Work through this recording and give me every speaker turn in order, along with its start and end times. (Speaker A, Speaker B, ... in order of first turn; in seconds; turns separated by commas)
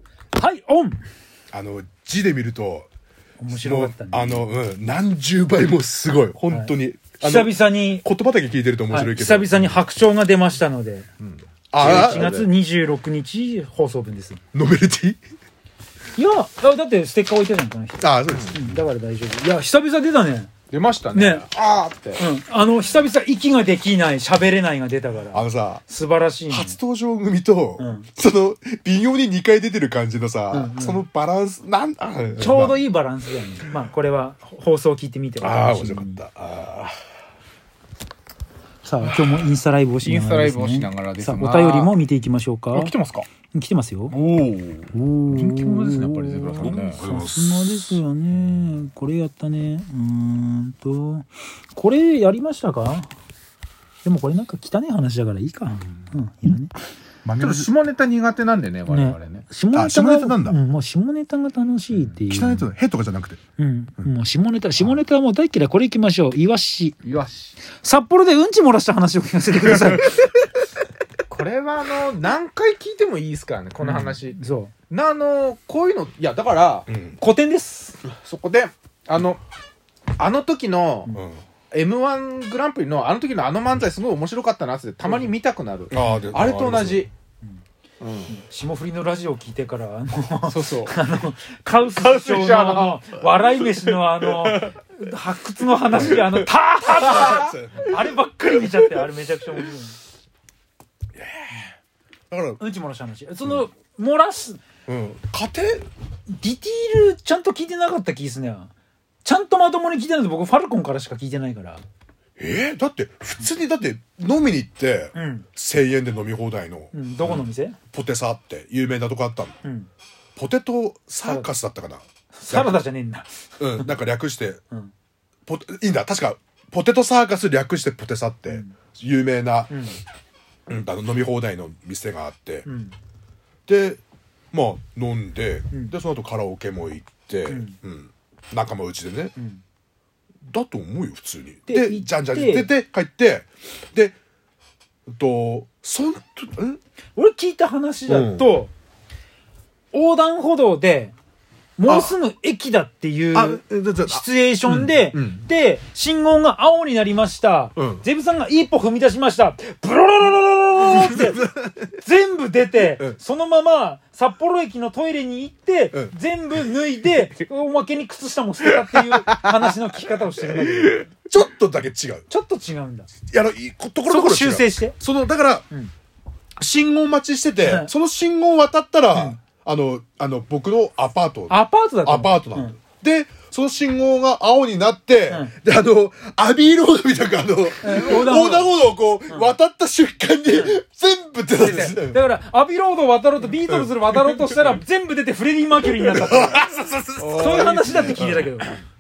Speaker A: 0.3-1.0, Speaker B: 1.5-2.9, Speaker A: 3.4-4.4, Speaker B: 3.5-9.8, Speaker A: 6.5-8.1, Speaker A: 8.9-11.1, Speaker C: 11.2-12.5, Speaker B: 11.7-12.3, Speaker A: 11.8-14.4, Speaker B: 14.5-15.2, Speaker A: 16.2-20.5, Speaker B: 18.0-18.8, Speaker C: 18.3-18.5, Speaker C: 20.7-22.2, Speaker A: 21.1-21.5, Speaker A: 22.2-26.8, Speaker B: 25.3-25.8, Speaker B: 26.5-32.8, Speaker A: 27.8-28.1, Speaker A: 30.5-31.0, Speaker A: 32.4-36.2, Speaker B: 35.4-36.9, Speaker A: 38.8-42.9, Speaker B: 39.0-39.5, Speaker C: 40.0-42.0, Speaker C: 42.7-43.3, Speaker A: 43.5-44.2, Speaker B: 44.1-44.9, Speaker A: 44.9-53.1, Speaker C: 45.3-47.0, Speaker B: 46.6-48.0, Speaker A: 54.0-56.7, Speaker B: 57.2-57.7, Speaker C: 57.4-59.5, Speaker A: 58.9-62.7, Speaker B: 59.7-60.6, Speaker B: 62.3-63.4, Speaker A: 63.6-67.0, Speaker C: 67.0-67.6, Speaker A: 67.7-70.2, Speaker C: 69.8-70.3, Speaker C: 71.3-74.4, Speaker A: 73.8-74.7, Speaker C: 74.9-76.9, Speaker B: 76.9-77.2, Speaker A: 77.2-78.0, Speaker C: 78.1-79.4, Speaker C: 80.2-81.2, Speaker B: 81.1-81.4, Speaker C: 81.7-87.1, Speaker B: 85.9-87.0, Speaker A: 86.0-86.3, Speaker C: 88.0-88.3, Speaker A: 88.3-100.0, Speaker C: 90.4-91.0, Speaker C: 92.0-94.7, Speaker C: 96.0-97.5, Speaker B: 97.1-98.0, Speaker B: 101.2-101.7, Speaker B: 102.3-102.6, Speaker A: 102.6-104.6, Speaker B: 104.9-105.8, Speaker A: 106.3-108.7, Speaker A: 109.2-111.8, Speaker B: 112.4-119.6, Speaker A: 115.2-115.5, Speaker A: 116.9-117.8, Speaker A: 119.6-119.9, Speaker B: 120.4-122.8, Speaker A: 121.2-121.5, Speaker A: 122.3-124.0, Speaker B: 123.6-124.6, Speaker B: 125.5-129.9, Speaker A: 129.7-130.0, Speaker B: 130.7-132.7, Speaker A: 132.7-132.9, Speaker B: 133.7-134.0, Speaker B: 134.5-139.3, Speaker A: 137.5-137.8, Speaker B: 140.5-144.2, Speaker A: 141.7-142.7, Speaker B: 145.1-146.8, Speaker A: 147.2-148.7, Speaker B: 148.1-148.5, Speaker A: 149.9-151.1, Speaker A: 151.8-161.4, Speaker B: 151.8-152.2, Speaker B: 153.3-155.5, Speaker B: 157.8-158.0, Speaker B: 161.1-161.7, Speaker A: 162.0-171.1, Speaker C: 168.6-169.7, Speaker C: 170.4-171.1, Speaker B: 171.3-172.3, Speaker A: 172.3-173.1, Speaker B: 173.3-175.7, Speaker A: 174.1-175.0, Speaker B: 176.6-192.2, Speaker A: 177.6-177.9, Speaker A: 181.5-182.8, Speaker A: 187.8-188.7, Speaker A: 190.5-190.8, Speaker C: 191.6-192.0, Speaker A: 191.6-196.7, Speaker B: 193.7-194.5, Speaker B: 196.0-198.5, Speaker C: 197.2-198.2, Speaker A: 197.3-198.7